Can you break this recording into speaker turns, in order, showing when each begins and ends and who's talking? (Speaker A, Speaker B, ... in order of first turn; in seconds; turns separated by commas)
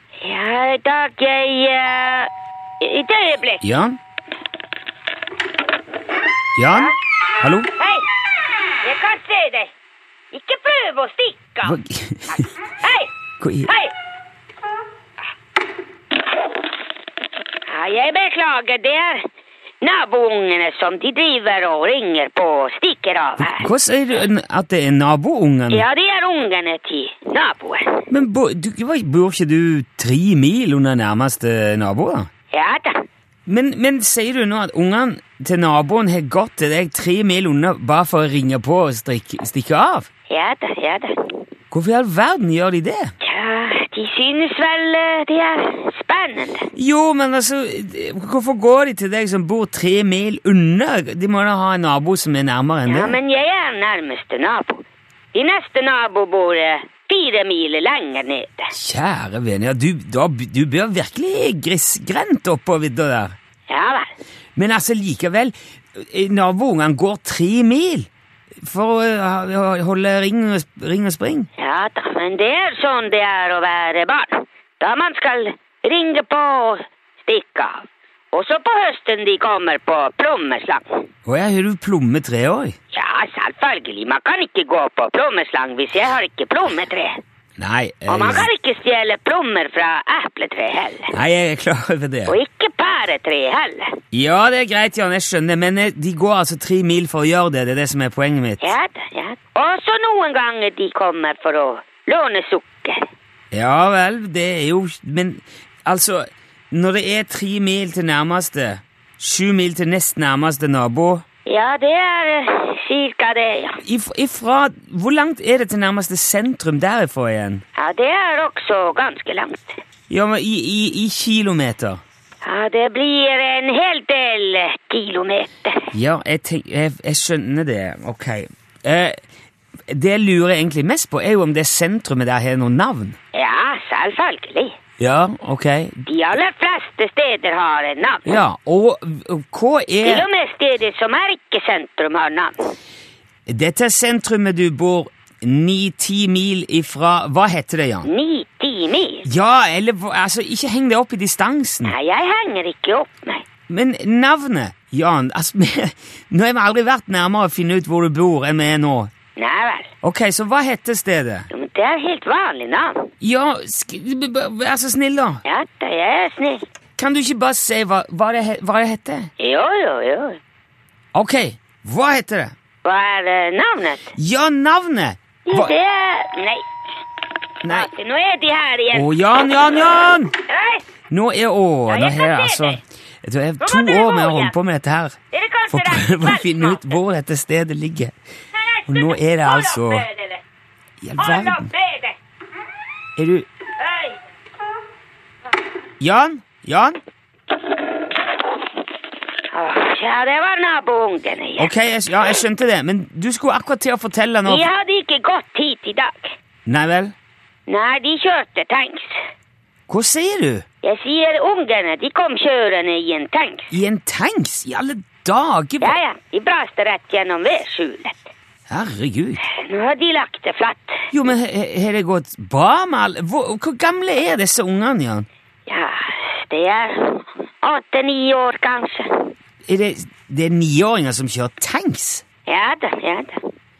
Speaker A: 0.2-2.3, Speaker A: 2.8-3.6, Speaker B: 3.6-4.0, Speaker B: 6.5-7.7, Speaker A: 7.8-8.1, Speaker A: 8.8-9.7, Speaker A: 10.3-11.8, Speaker B: 11.6-12.5, Speaker A: 12.8-13.1, Speaker B: 13.4-13.7, Speaker A: 13.7-13.9, Speaker A: 17.7-19.3, Speaker A: 19.8-23.7, Speaker B: 23.4-25.8, Speaker A: 25.7-28.1, Speaker B: 28.1-32.3, Speaker A: 32.5-33.0, Speaker B: 33.5-40.1, Speaker A: 40.3-41.4, Speaker B: 41.7-43.1, Speaker A: 43.2-46.7, Speaker B: 46.7-53.2, Speaker A: 52.9-58.7, Speaker B: 58.7-63.3, Speaker A: 63.7-64.1, Speaker B: 64.5-68.1, Speaker B: 68.6-71.5, Speaker A: 71.6-81.0, Speaker B: 81.2-82.8, Speaker A: 82.9-87.2, Speaker B: 87.6-88.5, Speaker A: 88.1-91.1, Speaker B: 91.1-92.4, Speaker A: 92.2-94.0, Speaker B: 94.1-98.7, Speaker A: 98.6-103.1, Speaker B: 103.5-111.2, Speaker A: 111.5-113.8, Speaker B: 113.8-117.6, Speaker A: 117.8-119.8, Speaker B: 120.1-122.0, Speaker A: 122.4-125.9, Speaker B: 125.9-129.2, Speaker B: 129.9-133.2, Speaker A: 133.3-134.7, Speaker B: 135.0-136.0, Speaker A: 136.0-138.3, Speaker B: 138.2-140.2, Speaker A: 140.0-142.7, Speaker B: 143.5-148.1, Speaker A: 148.0-149.2, Speaker B: 149.2-151.9, Speaker A: 151.8-153.4, Speaker B: 153.7-159.1, Speaker A: 159.4-159.9, Speaker B: 160.0-161.5, Speaker A: 161.5-163.1, Speaker B: 163.2-165.4, Speaker A: 165.4-166.6, Speaker B: 167.0-169.3, Speaker A: 169.4-170.4, Speaker B: 171.1-172.5, Speaker A: 172.8-174.1, Speaker B: 174.1-175.7, Speaker A: 175.4-176.6, Speaker B: 177.6-177.9, Speaker A: 177.6-179.1, Speaker B: 178.9-180.3, Speaker A: 180.4-180.8, Speaker B: 181.1-185.2, Speaker A: 181.9-182.8, Speaker A: 183.6-184.5, Speaker A: 185.3-187.0, Speaker B: 185.7-188.1, Speaker A: 188.5-190.4, Speaker B: 188.9-190.1, Speaker B: 191.0-191.7, Speaker A: 191.2-192.2, Speaker B: 193.2-193.5, Speaker A: 193.8-194.2, Speaker B: 196.0-197.0, Speaker A: 199.5-201.7, Speaker B: 201.6-204.7, Speaker A: 204.4-206.3, Speaker B: 206.7-207.1, Speaker A: 207.7-209.1, Speaker B: 209.9-210.6, Speaker A: 210.8-213.7, Speaker B: 213.7-215.9, Speaker A: 215.8-218.3, Speaker B: 218.7-219.4, Speaker A: 219.4-221.1, Speaker B: 221.1-225.2, Speaker A: 225.7-229.3, Speaker B: 229.7-232.2, Speaker A: 232.5-233.4